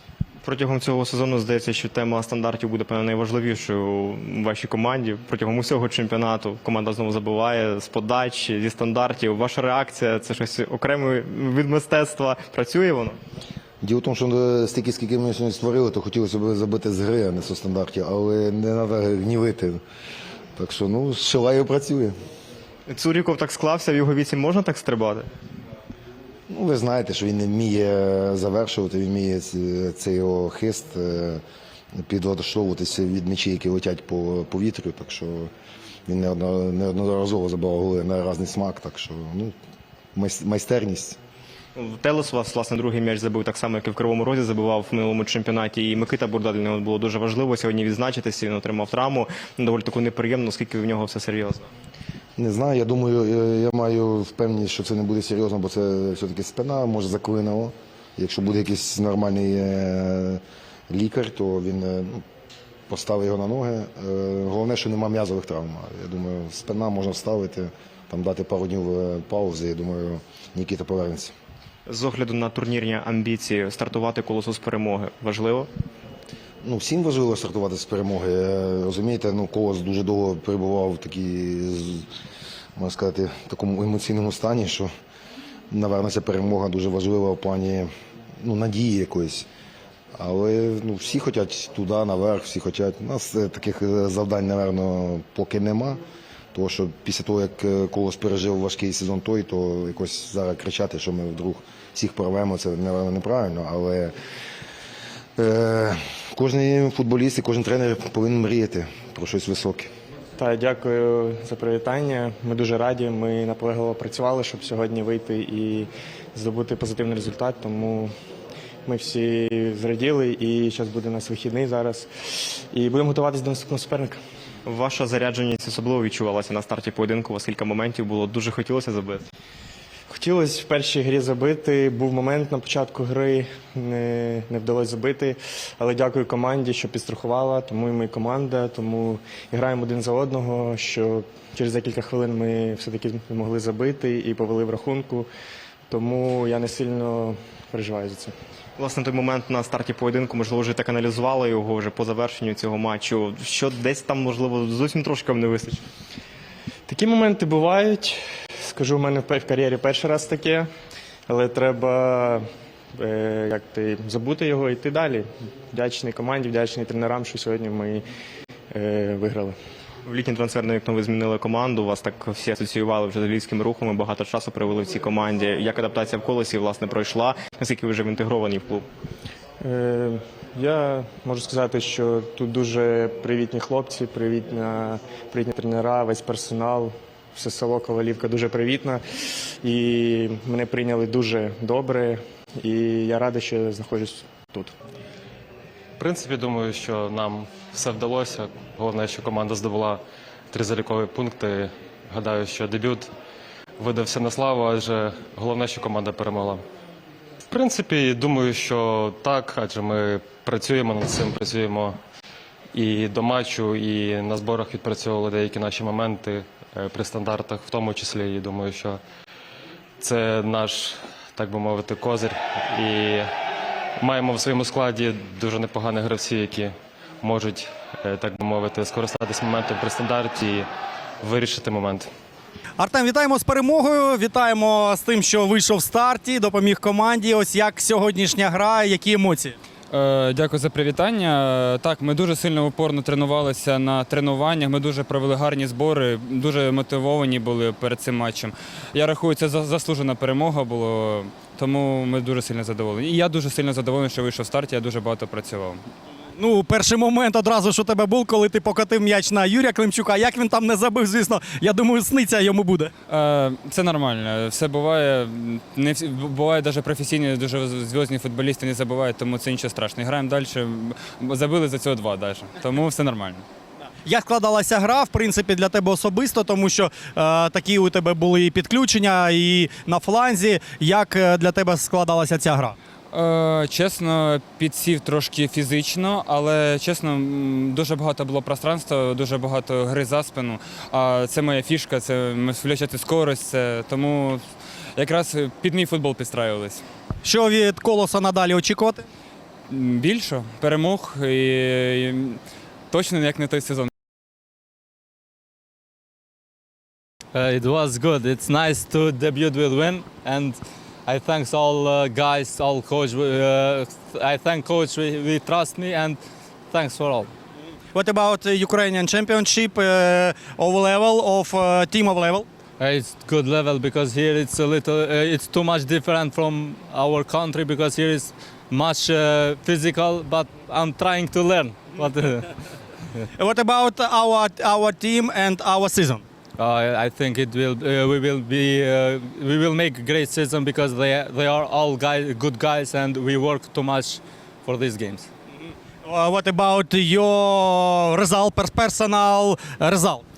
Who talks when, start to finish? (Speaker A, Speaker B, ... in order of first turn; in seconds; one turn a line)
Speaker A: 0.4-13.2
Speaker B: 13.8-19.8
Speaker B: 20.6-22.1
Speaker A: 22.9-25.3
Speaker B: 26.5-31.4
Speaker B: 32.0-35.5
Speaker B: 36.1-39.5
Speaker B: 40.1-41.2
Speaker A: 41.7-51.7
Speaker B: 52.4-62.2
Speaker B: 62.9-71.3
Speaker A: 71.8-75.7
Speaker B: 76.6-82.0
Speaker B: 82.8-84.9
Speaker B: 85.7-87.9
Speaker B: 88.4-89.5
Speaker B: 90.2-96.0
Speaker B: 96.5-104.1
Speaker B: 105.4-109.9
Speaker C: 110.3-118.1
Speaker C: 118.8-124.2
Speaker A: 124.6-129.3
Speaker C: 130.1-145.3
Speaker C: 145.9-148.3
Speaker A: 148.8-155.9
Speaker C: 156.9-160.7
Speaker C: 161.3-162.4
Speaker C: 162.9-168.0
Speaker C: 168.7-169.6
Speaker A: 170.0-178.8
Speaker C: 179.6-189.0
Speaker C: 189.6-194.7
Speaker D: 196.0-203.1
Speaker D: 203.8-206.6
Speaker D: 207.5-212.0
Speaker D: 212.7-219.0
Speaker D: 220.0-223.3
Speaker D: 224.0-230.7
Speaker D: 231.2-232.1
Speaker E: 232.8-239.5
Speaker F: 239.9-255.8
Speaker E: 256.4-262.9
Speaker F: 263.1-273.4
Speaker E: 274.1-282.7
Speaker F: 283.1-294.4
Speaker F: 294.9-296.8
Speaker E: 297.2-299.0
Speaker F: 299.7-302.4
Speaker F: 302.9-303.9
Speaker G: 307.3-317.3
Speaker E: 317.9-322.4
Speaker G: 322.8-332.5
Speaker E: 333.4-336.2
Speaker G: 336.6-345.3
Speaker E: 346.0-350.2